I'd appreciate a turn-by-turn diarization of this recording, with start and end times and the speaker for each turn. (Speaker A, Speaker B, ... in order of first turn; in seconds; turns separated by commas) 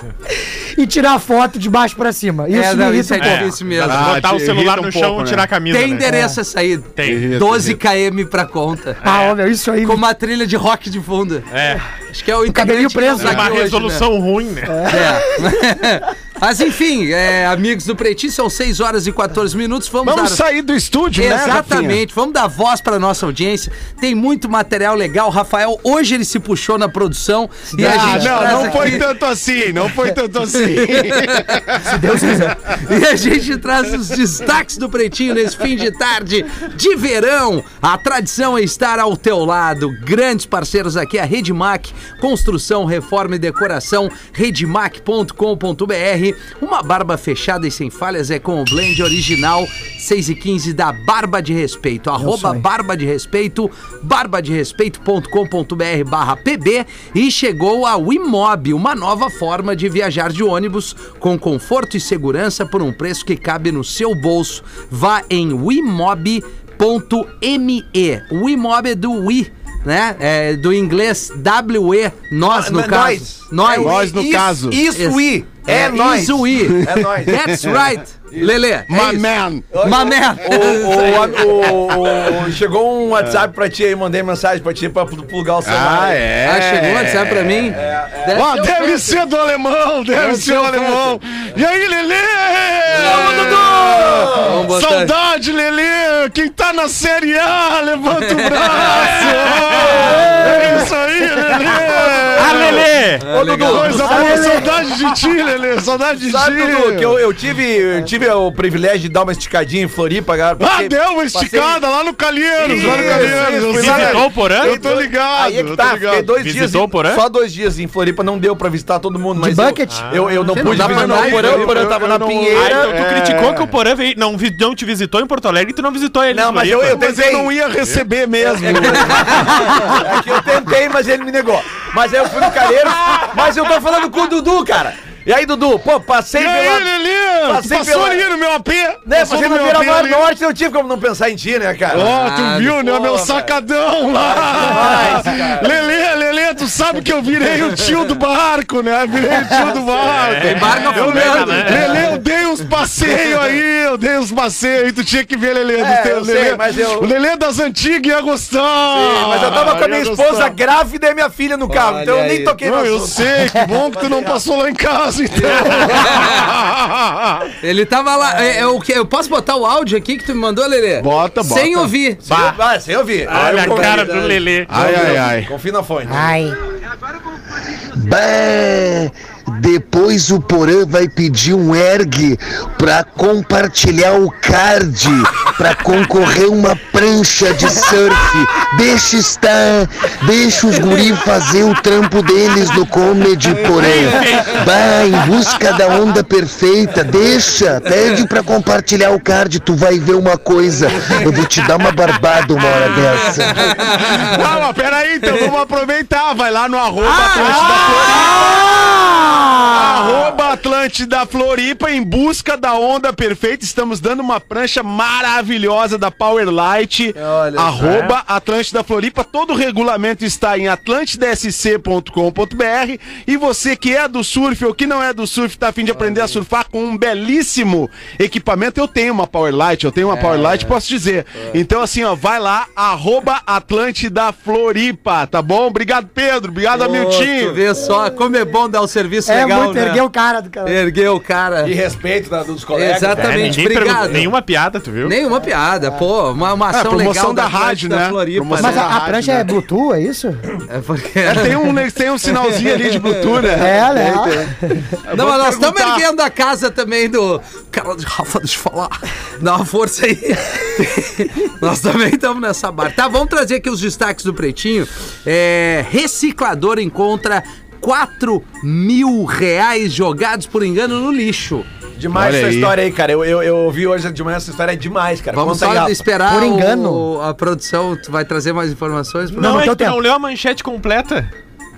Speaker A: 0.8-3.6, Speaker B: 2.5-4.2, Speaker C: 3.2-6.1, Speaker D: 3.8-5.5, Speaker B: 5.7-9.0, Speaker A: 6.0-6.4, Speaker C: 7.0-7.3, Speaker D: 7.0-7.8, Speaker C: 9.0-9.4, Speaker A: 9.0-10.1, Speaker B: 9.8-11.5, Speaker C: 11.5-11.8, Speaker B: 12.1-14.1, Speaker A: 12.5-13.6, Speaker C: 13.2-15.1, Speaker A: 14.7-15.5, Speaker B: 14.9-20.4, Speaker D: 20.0-22.0, Speaker B: 21.1-29.1, Speaker A: 27.7-28.9, Speaker D: 27.8-32.5, Speaker B: 30.5-31.8, Speaker A: 31.8-32.6, Speaker B: 32.6-74.1, Speaker A: 52.2-52.7, Speaker E: 72.4-77.6, Speaker D: 73.8-74.8, Speaker B: 74.9-81.8, Speaker D: 76.7-77.0, Speaker D: 78.9-79.7, Speaker E: 79.7-86.2, Speaker D: 85.6-87.8, Speaker B: 86.4-89.3, Speaker E: 87.7-88.5, Speaker D: 88.3-102.9, Speaker B: 90.2-91.2, Speaker B: 92.9-93.6, Speaker E: 92.9-94.5, Speaker B: 94.3-95.1, Speaker B: 98.3-99.2, Speaker C: 98.9-100.0, Speaker E: 99.8-100.8, Speaker B: 100.0-100.5, Speaker A: 100.3-101.8, Speaker E: 101.7-104.7, Speaker C: 102.3-103.2, Speaker B: 103.2-104.4, Speaker D: 103.6-107.2, Speaker A: 104.1-105.0, Speaker E: 106.2-111.8, Speaker D: 110.6-116.3, Speaker E: 112.6-122.9, Speaker C: 112.7-114.9, Speaker C: 116.4-117.2, Speaker A: 119.4-120.2, Speaker C: 119.9-120.9, Speaker B: 120.5-121.8, Speaker D: 120.6-123.8, Speaker C: 122.5-127.1, Speaker E: 126.3-127.5, Speaker D: 126.8-129.9, Speaker E: 128.4-136.9, Speaker D: 136.3-140.3, Speaker E: 137.4-138.2, Speaker E: 139.1-142.1, Speaker D: 141.9-160.6, Speaker B: 142.0-143.4, Speaker E: 142.9-143.2, Speaker E: 144.2-145.8, Speaker C: 150.0-152.1, Speaker B: 150.4-152.1, Speaker E: 150.8-151.7, Speaker E: 155.8-157.1, Speaker E: 158.9-163.3, Speaker B: 161.7-162.6, Speaker D: 162.6-167.5, Speaker E: 163.8-164.4, Speaker E: 165.4-166.3, Speaker B: 166.0-166.4, Speaker B: 167.6-172.2, Speaker D: 171.0-171.9, Speaker E: 172.2-176.4, Speaker C: 172.3-172.6, Speaker C: 173.2-175.2, Speaker B: 173.3-174.4, Speaker D: 174.7-175.5, Speaker A: 176.1-176.6, Speaker F: 177.9-203.9, Speaker C: 193.7-194.8, Speaker B: 202.7-204.4, Speaker D: 203.9-208.6, Speaker B: 207.0-208.9, Speaker A: 208.3-210.0, Speaker D: 209.7-237.6, Speaker B: 217.2-218.2, Speaker B: 230.1-230.8, Speaker B: 236.7-240.0, Speaker A: 239.3-240.8, Speaker B: 240.6-241.8, Speaker E: 241.6-244.3, Speaker B: 242.7-244.3, Speaker C: 243.2-245.2, Speaker B: 245.0-248.9, Speaker D: 246.7-249.6, Speaker A: 248.6-250.4, Speaker B: 250.7-251.8, Speaker D: 251.2-256.1, Speaker B: 252.3-253.4, Speaker A: 253.5-254.9, Speaker B: 255.1-271.7, Speaker E: 272.0-276.1, Speaker D: 272.1-272.8, Speaker B: 275.3-279.7, Speaker A: 276.2-277.1, Speaker A: 279.4-280.0, Speaker C: 279.4-281.3